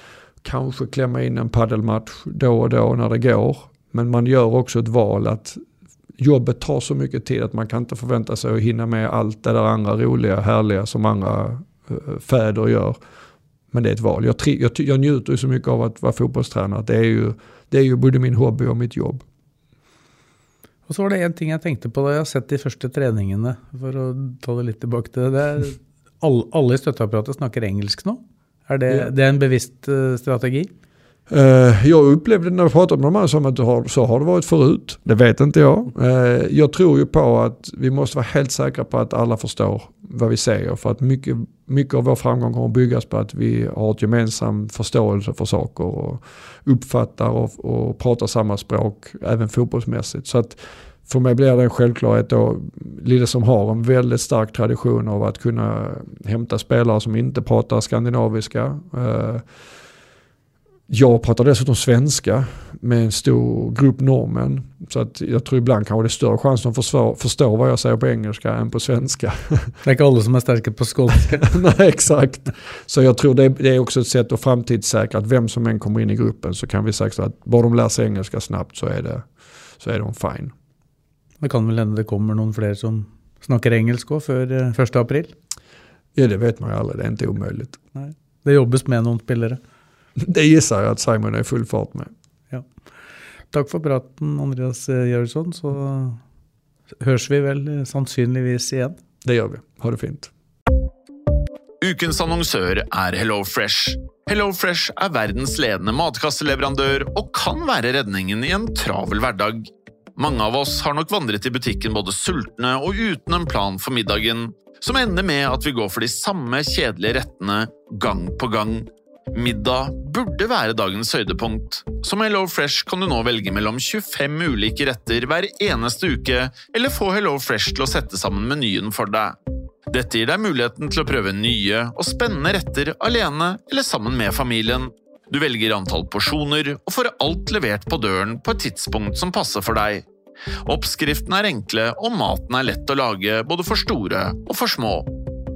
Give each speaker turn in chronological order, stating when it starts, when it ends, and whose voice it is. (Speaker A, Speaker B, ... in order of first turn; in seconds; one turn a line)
Speaker A: 0.4-5.6
Speaker A: 6.2-13.0
Speaker A: 13.7-19.2
Speaker B: 20.9-30.7
Speaker A: 31.3-59.5
Speaker A: 60.9-69.8
Speaker B: 69.8-71.5
Speaker A: 71.4-79.3
Speaker A: 79.8-80.5
Speaker B: 81.4-85.3
Speaker A: 86.1-87.8
Speaker B: 87.9-89.6
Speaker A: 90.2-92.1
Speaker B: 93.5-96.2
Speaker B: 97.0-99.0
Speaker A: 99.2-100.3
Speaker C: 101.8-129.4
Speaker C: 129.9-140.1
Speaker C: 140.6-145.1